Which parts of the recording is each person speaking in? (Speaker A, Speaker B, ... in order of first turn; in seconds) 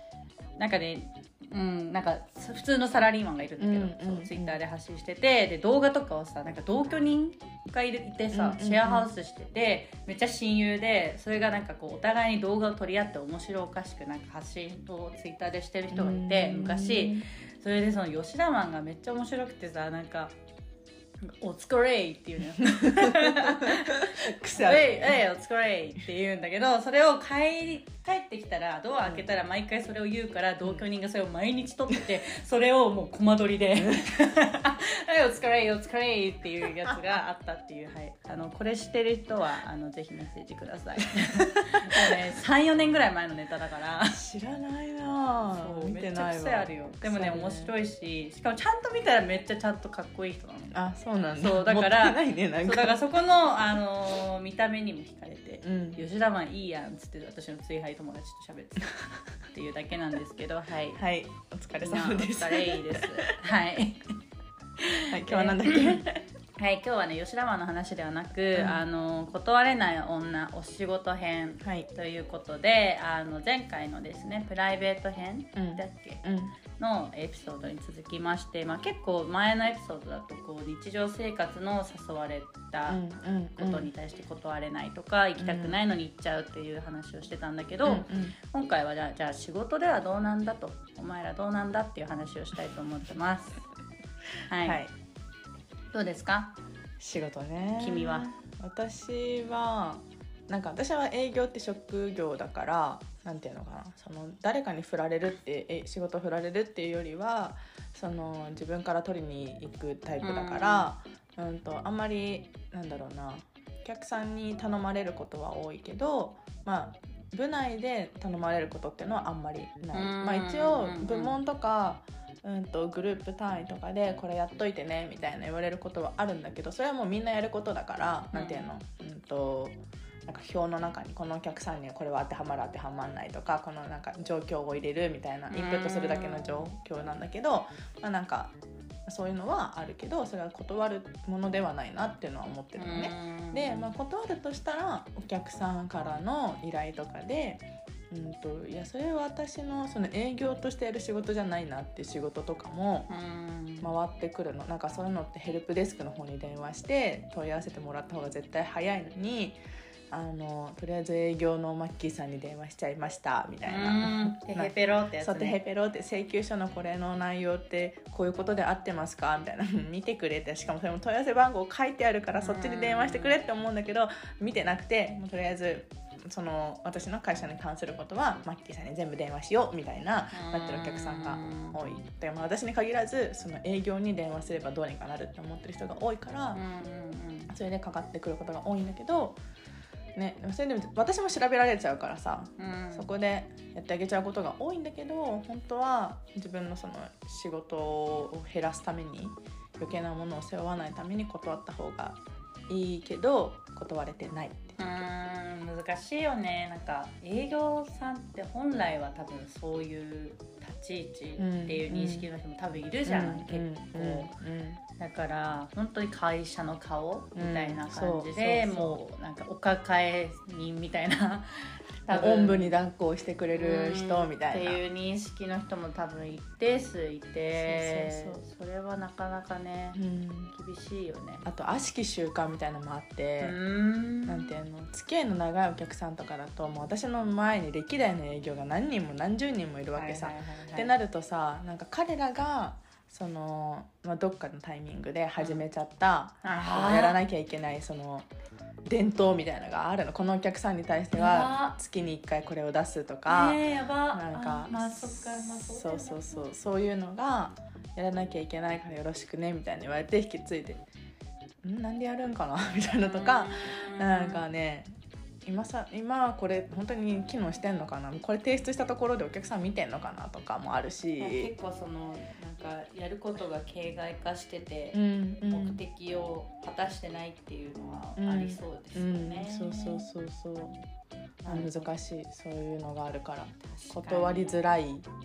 Speaker A: 0.6-20.3, 21.2-44.2, 45.5-50.8, 51.3-61.0, 61.8-64.1, 64.8-66.0, 66.6-76.2, 76.8-83.0, 83.6-93.6, 94.5-94.8, 95.9-96.5, 97.7-98.3, 110.2-110.9, 119.9-121.3, 128.3-128.6, 135.5-136.7, 142.8-143.9, 153.1-153.9, 163.6-165.6, 172.4-173.3, 180.3-181.8, 186.5-187.5, 192.6-193.1, 204.8-214.3, 215.0-222.8, 223.5-230.0, 230.5-231.4, 233.4-234.5, 239.9-240.9, 246.4-247.2, 251.2-251.8, 253.3-256.4, 263.0-264.4, 271.2-280.1, 281.4-281.9, 283.6-284.6
Speaker B: 3.6-4.6, 8.3-9.1, 15.9-17.3, 22.6-25.2, 33.8-34.2, 41.2-42.2, 44.1-47.7, 50.7-53.1, 55.6-56.0, 60.9-63.3, 65.1-66.2, 68.5-68.8, 71.6-71.9, 75.5-76.5, 82.9-83.9, 85.4-85.8, 87.8-88.3, 94.6-94.9, 97.0-138.5, 139.1-153.1, 153.8-159.6, 160.1-186.6, 187.5-189.4, 190.1-204.8, 211.4-212.3, 213.1-214.8, 217.3-219.0, 222.1-224.8, 227.6-228.4, 229.9-230.5, 231.4-233.6, 234.2-248.3, 248.8-260.8, 261.6-264.9, 265.4-271.5, 274.9-275.8, 278.2-280.8, 281.4-285.1